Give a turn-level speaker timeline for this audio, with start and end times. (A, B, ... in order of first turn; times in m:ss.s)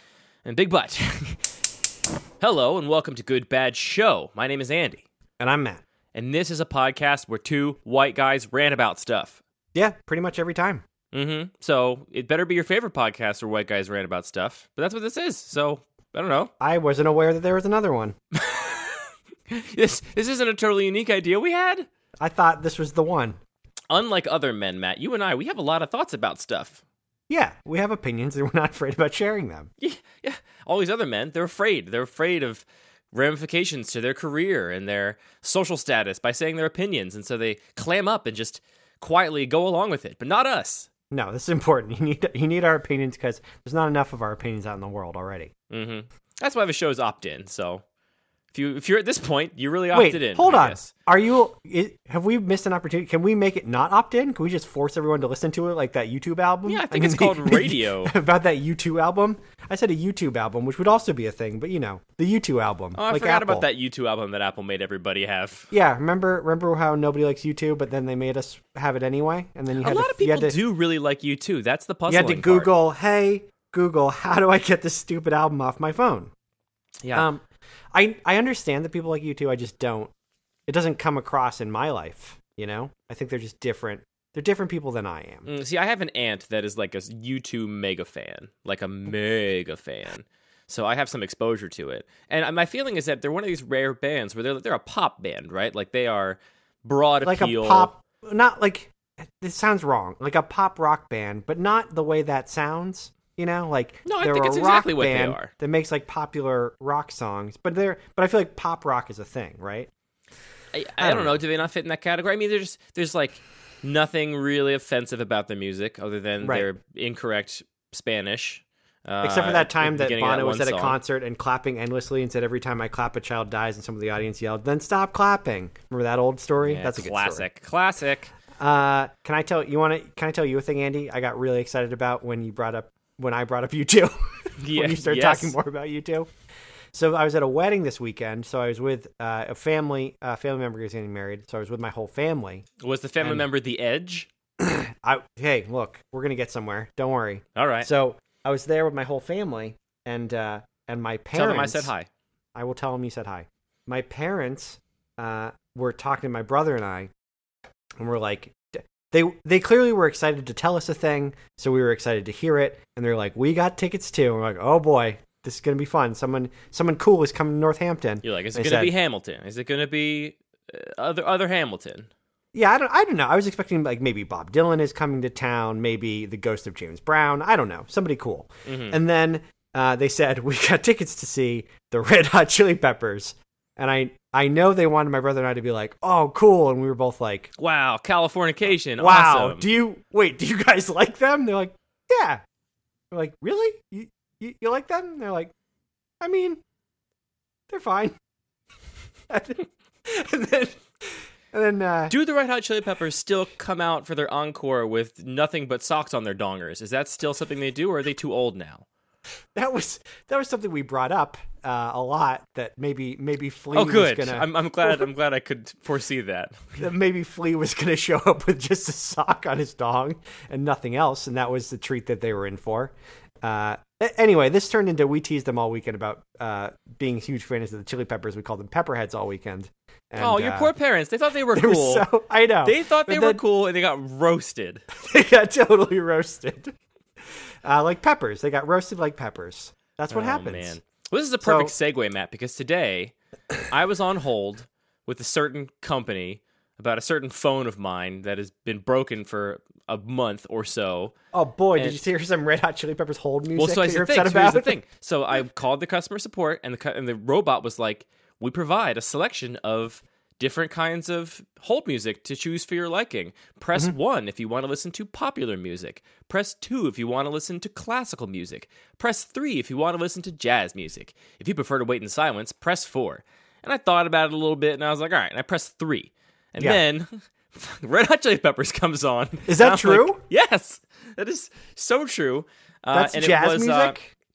0:00.4-0:01.6 A
0:02.4-0:05.0 A
0:05.4-0:05.8 B
0:06.1-0:09.4 A
0:09.7-0:10.8 B
0:11.1-0:16.5 A
0:16.6-0:18.2 B
0:18.3-0:21.9 A
0:22.2-0:23.4 B
0:23.9-0:26.8 A
0:27.3-0:29.7 B
0:29.8-0:40.9 A
0:41.1-0:45.5 B
0:45.7-0:47.8 A
0:48.5-0:50.9 A
0:49.9-1:03.6 B
0:56.7-0:58.1 A
1:03.0-1:05.7 A
1:05.7-1:10.5 B
1:09.8-1:12.7 A
1:12.1-1:16.3 B
1:17.0-1:17.3 A
1:17.1-1:20.1 B
1:20.7-1:25.5 B
1:25.4-1:37.9 A
1:37.2-1:49.9 B
1:44.0-1:45.5 A
1:50.7-2:01.0 A
1:51.0-1:51.3 B
1:56.4-1:56.7 B
1:59.2-2:07.4 B
2:06.6-2:08.3 A
2:08.6-2:16.3 B
2:14.6-2:15.6 A
2:16.9-2:22.6 B
2:22.8-2:24.3 A
2:24.6-2:31.9 B
2:27.5-2:27.9 A
2:31.3-2:32.1 A
2:32.5-2:37.1 B
2:38.0-2:48.9 B
2:48.2-2:52.1 A
2:52.5-3:07.5 B
2:58.6-2:59.0 A
3:07.6-3:09.6 A
3:09.0-3:12.4 B
3:13.1-3:15.5 B
3:16.2-3:16.6 B
3:17.7-3:18.2 B
3:19.3-3:22.1 B
3:22.1-3:28.8 A
3:29.5-3:35.1 B
3:33.7-3:36.8 A
3:36.8-3:50.7 B
3:50.2-3:52.1 A
3:51.5-3:53.4 B
3:52.6-3:54.8 A
3:54.9-3:56.7 B
3:57.6-4:00.8 B
4:00.1-4:03.1 A
4:01.4-4:01.7 B
4:03.6-4:11.1 A
4:11.3-4:14.8 B
4:13.6-4:44.0 A
4:39.5-4:40.2 B
4:42.9-4:44.1 B